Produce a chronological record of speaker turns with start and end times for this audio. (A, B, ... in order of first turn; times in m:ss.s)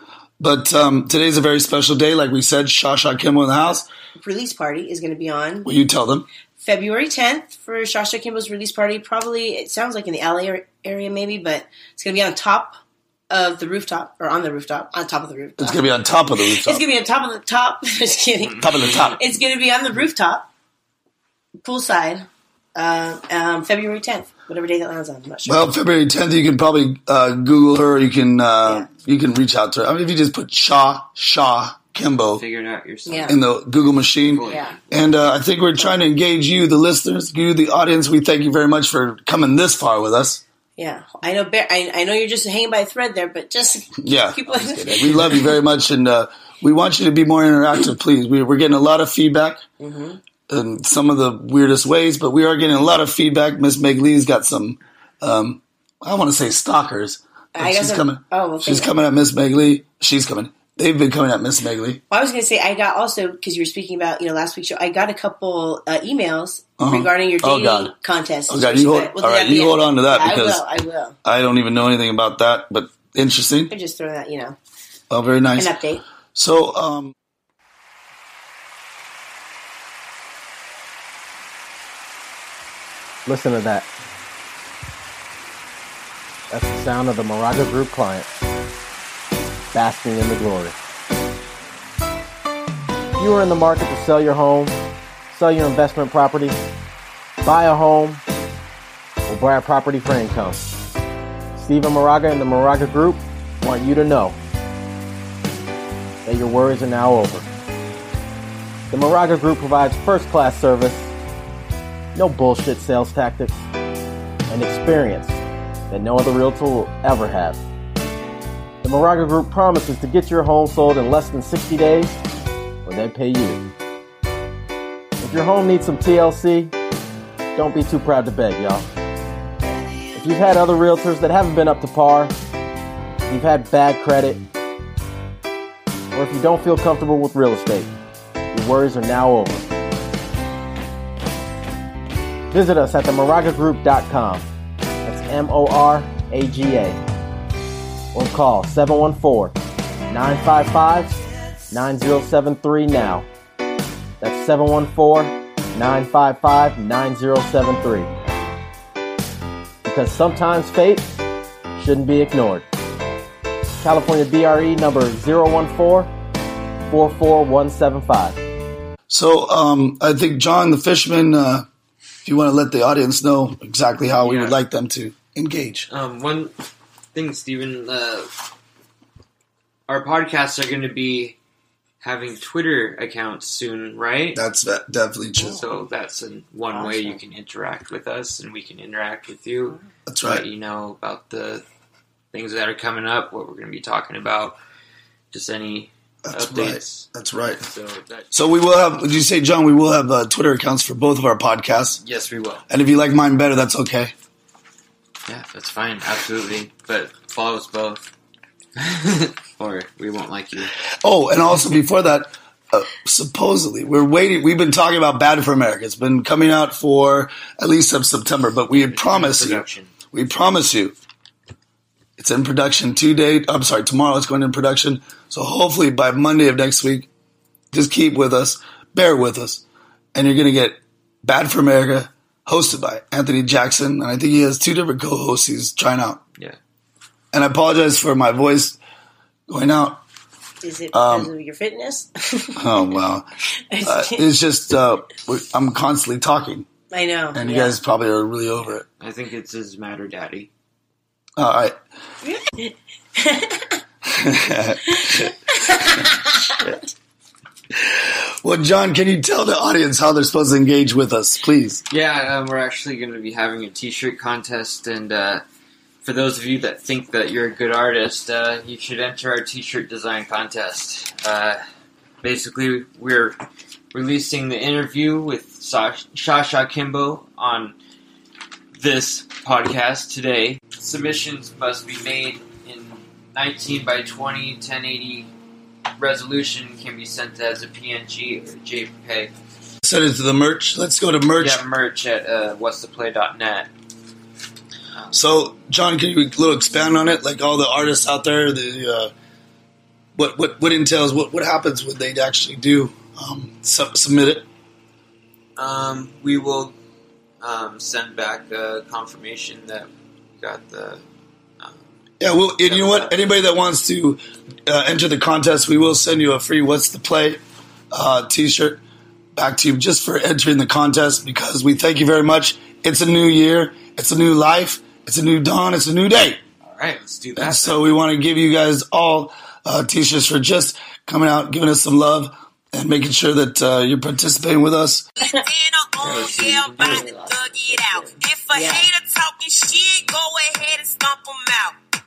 0:00.4-0:03.9 A
0:04.2-0:05.7 B
0:05.6-0:06.3 A
0:06.6-0:12.8 B
0:13.3-0:15.8 B
0:15.6-0:16.9 A
0:16.5-0:20.5 B
0:18.4-0:19.2 C
0:18.6-0:19.2 A
0:21.6-0:25.6 B
0:25.5-0:32.4 A
0:32.3-0:33.4 C
0:33.1-0:33.4 B
0:33.3-0:40.4 A
0:34.3-0:34.9 C
0:34.4-0:34.7 B
0:40.8-0:45.5 B
0:44.0-0:49.6 A
0:49.8-0:50.2 B
0:50.5-1:02.0 A
0:57.6-0:58.9 B
1:02.1-1:11.2 B
1:06.8-1:08.0 A
1:08.5-1:10.6 A
1:11.2-1:13.7 A
1:13.7-1:14.6 B
1:15.1-1:15.7 A
1:15.6-1:16.0 B
1:16.4-1:17.1 A
1:23.3-1:23.9 D
1:26.5-1:28.4 D
1:29.7-1:30.8 D
1:33.2-1:34.8 D
1:35.3-1:36.6 D
1:37.4-1:38.2 D
1:39.3-1:40.7 D
1:41.6-1:44.4 D
1:46.2-1:47.5 D
1:48.9-1:51.1 D
1:52.2-1:53.7 D
1:54.5-1:57.6 D
1:58.8-2:02.2 D
2:02.8-2:03.6 D
2:05.2-2:06.8 D
2:07.6-2:08.9 D
2:10.1-2:12.4 D
2:13.3-2:14.4 D
2:16.1-2:17.9 D
2:18.5-2:19.7 D
2:22.5-2:24.5 D
2:25.0-2:27.0 D
2:28.1-2:29.6 D
2:30.1-2:31.2 D
2:31.7-2:33.3 D
2:34.2-2:38.1 D
2:39.8-2:41.1 D
2:41.8-2:42.7 D
2:43.8-2:46.1 D
2:46.9-2:48.4 D
2:49.1-2:51.7 A
2:52.2-2:55.9 A
2:54.1-2:54.6 C
2:55.9-2:56.5 C
2:57.1-2:58.3 C
2:59.9-3:01.4 C
3:02.0-3:04.4 C
3:04.3-3:05.6 A
3:05.4-3:11.6 C
3:06.7-3:07.2 B
3:10.1-3:10.4 A
3:12.3-3:14.6 C
3:15.3-3:18.3 C
3:16.2-3:17.6 A
3:18.3-3:22.0 A
3:22.0-3:22.6 C
3:22.7-3:24.1 A
3:25.3-3:28.1 C
3:28.8-3:30.7 C
3:31.0-3:41.0 A
3:38.7-3:39.9 C
3:42.2-3:47.1 A
3:47.7-3:56.2 A
3:57.3-3:58.8 A
3:59.5-4:00.0 A
4:00.6-4:02.9 B
4:00.9-4:01.3 A
4:02.6-4:03.3 A
4:03.7-4:04.3 B
4:03.8-4:06.7 A
4:06.9-4:07.8 B
4:07.4-4:08.8 A
4:09.0-4:10.5 C
4:11.4-4:11.8 A
4:12.2-4:13.8 B
4:14.1-4:15.3 A
4:14.9-4:16.8 B
4:17.7-4:21.8 A
4:21.9-4:25.4 C
4:26.0-4:31.6 C
4:32.2-4:33.4 C
4:33.9-4:37.8 C
4:38.8-4:45.3 C
4:46.0-4:49.3 C
4:49.8-4:51.6 A
4:51.4-4:53.7 C
4:55.1-4:59.1 A
5:00.2-5:04.5 A
5:05.6-5:06.8 C
5:07.4-5:11.0 C
5:11.6-5:11.9 C
5:12.2-5:18.8 A
5:12.6-5:13.2 C
5:19.4-5:26.4 A
5:26.6-5:27.9 C
5:27.4-5:35.1 A
5:35.6-5:35.9 E
5:36.0-5:37.1 C
5:36.5-5:36.8 E
5:36.8-5:38.9 B
5:37.6-5:38.4 E
5:39.0-5:41.7 E